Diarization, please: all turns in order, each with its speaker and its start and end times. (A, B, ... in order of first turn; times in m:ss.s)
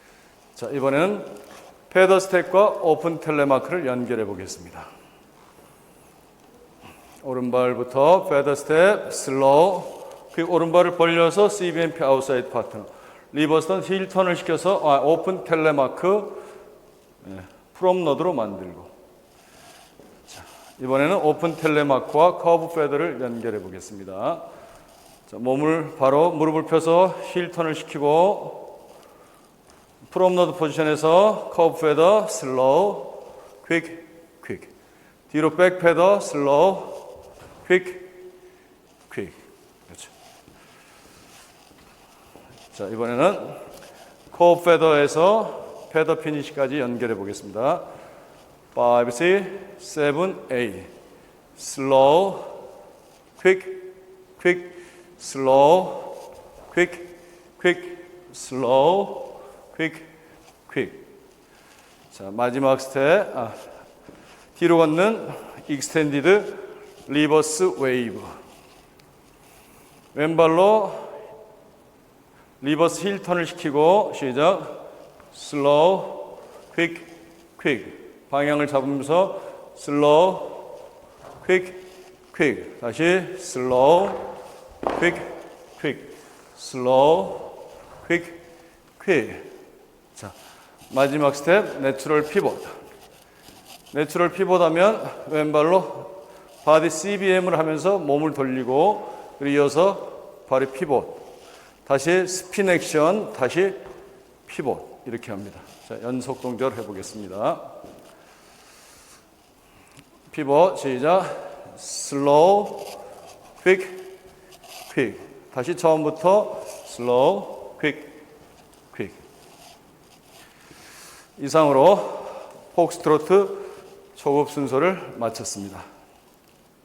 0:00.6-0:01.4 A
0:01.9-0:04.9 A
0:07.2-0:16.4 A
0:17.2-0:18.9 A
0:20.3-0:24.5 A
0:25.3-0:28.8 A
0:30.1-0:34.7 A
0:35.3-0:37.1 A
0:37.6-0:38.2 A
0:39.1-0:39.4 A
0:42.7-0:43.6 A
0:44.3-0:47.9 A
0:48.7-0:50.9 A
0:51.6-0:52.6 A
0:53.4-1:00.1 A
1:00.7-1:01.0 A
1:02.1-1:03.6 A
1:04.6-1:08.3 A
1:10.1-1:11.2 A
1:12.6-1:14.8 A
1:15.3-1:20.7 A
1:21.4-1:28.4 A
1:29.0-1:29.5 A
1:30.9-1:32.7 A
1:33.9-1:36.1 A
1:36.6-1:41.2 A
1:41.9-1:43.8 A
1:44.5-1:47.7 A
1:50.3-1:53.0 A
1:53.6-1:54.1 A
1:54.9-1:58.2 A
1:58.9-1:59.2 A
2:01.4-2:05.8 A